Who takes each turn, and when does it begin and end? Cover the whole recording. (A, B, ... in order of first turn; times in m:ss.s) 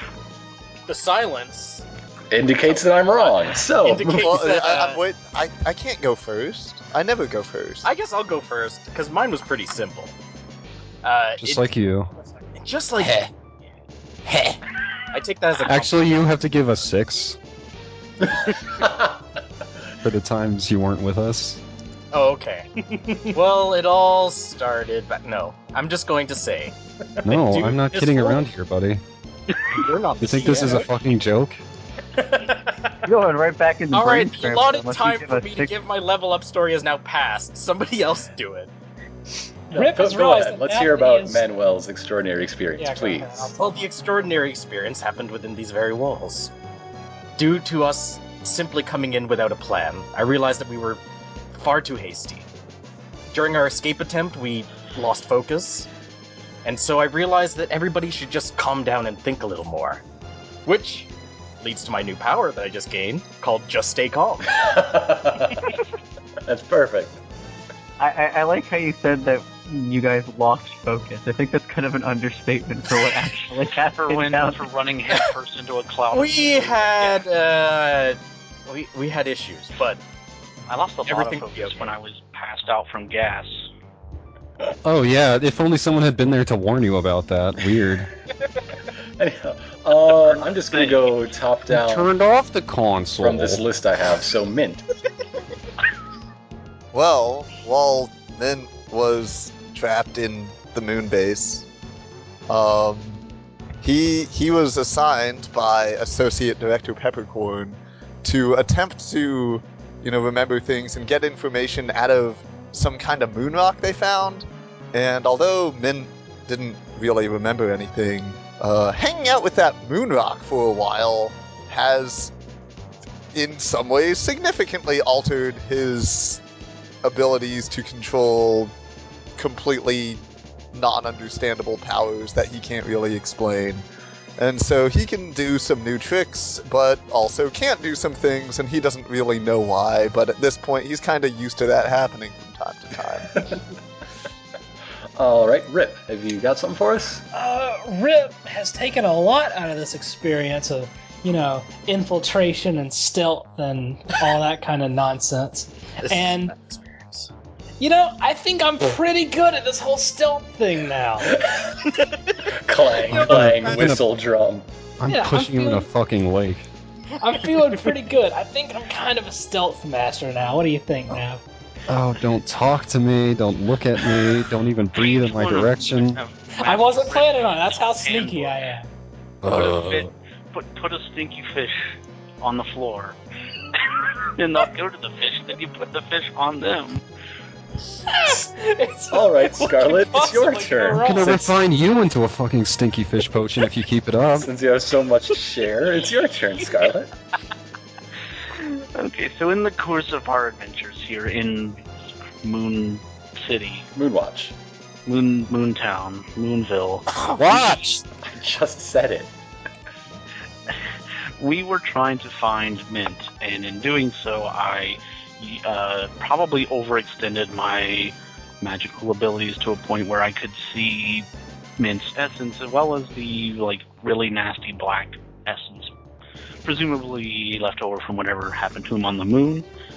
0:00.9-0:01.8 A
0:02.3-0:04.3 B
0:02.6-0:05.0 A
0:04.1-0:07.9 C
0:07.8-0:10.1 A
0:11.0-0:11.7 A
0:11.4-0:12.1 D
0:12.6-0:13.3 A
0:15.1-0:16.0 A
0:15.6-0:17.4 D
0:18.8-0:19.1 B
0:20.0-0:21.6 D
0:22.1-0:26.7 A
0:27.2-0:29.0 D
0:27.3-0:28.5 A
0:29.7-0:30.9 A
0:30.1-0:31.6 D
0:32.4-0:32.9 A
0:33.0-0:35.7 E
0:33.9-0:38.7 A
0:39.7-0:41.4 F
0:39.7-0:43.5 B
0:42.8-0:44.0 F
0:43.6-0:46.5 A
0:47.4-0:51.0 A
0:51.5-0:52.5 A
0:53.3-0:55.9 A
0:56.6-1:00.0 A
1:00.6-1:01.1 A
1:01.6-1:04.6 A
1:04.6-1:05.7 B
1:06.4-1:07.2 B
1:08.0-1:14.6 E
1:14.0-1:17.3 G
1:16.1-1:20.0 A
1:20.7-1:23.7 G
1:21.0-1:21.9 A
1:24.8-1:28.1 D
1:29.2-1:32.1 B
1:30.7-1:31.0 G
1:31.7-1:33.6 D
1:33.2-1:34.8 B
1:36.9-1:41.7 C
1:42.5-1:43.2 C
1:43.8-2:02.3 C
2:03.3-2:06.4 C
2:07.0-2:08.7 C
2:09.4-2:10.2 C
2:10.7-2:13.8 C
2:14.4-2:23.3 C
2:25.2-2:27.2 B
2:27.3-2:36.5 F
2:36.0-2:37.3 A
2:37.8-2:41.3 F
2:41.3-2:41.8 B
2:41.9-2:42.4 A
2:42.6-2:44.6 B
2:43.0-2:44.0 D
2:45.0-2:46.7 D
2:45.1-2:45.9 F
2:47.2-2:51.4 F
2:51.9-2:56.2 D
2:54.9-2:58.6 G
2:56.6-2:58.9 F
2:59.4-3:00.1 D
2:59.4-3:03.2 G
3:03.8-3:07.0 G
3:08.1-3:11.4 F
3:09.1-3:11.5 B
3:11.0-3:14.5 D
3:14.3-3:17.1 B
3:18.5-3:21.8 G
3:22.4-3:23.9 G
3:23.9-3:24.5 B
3:25.0-3:27.7 G
3:27.3-3:28.0 D
3:28.2-3:29.3 B
3:31.4-3:45.9 G
3:46.6-3:49.7 G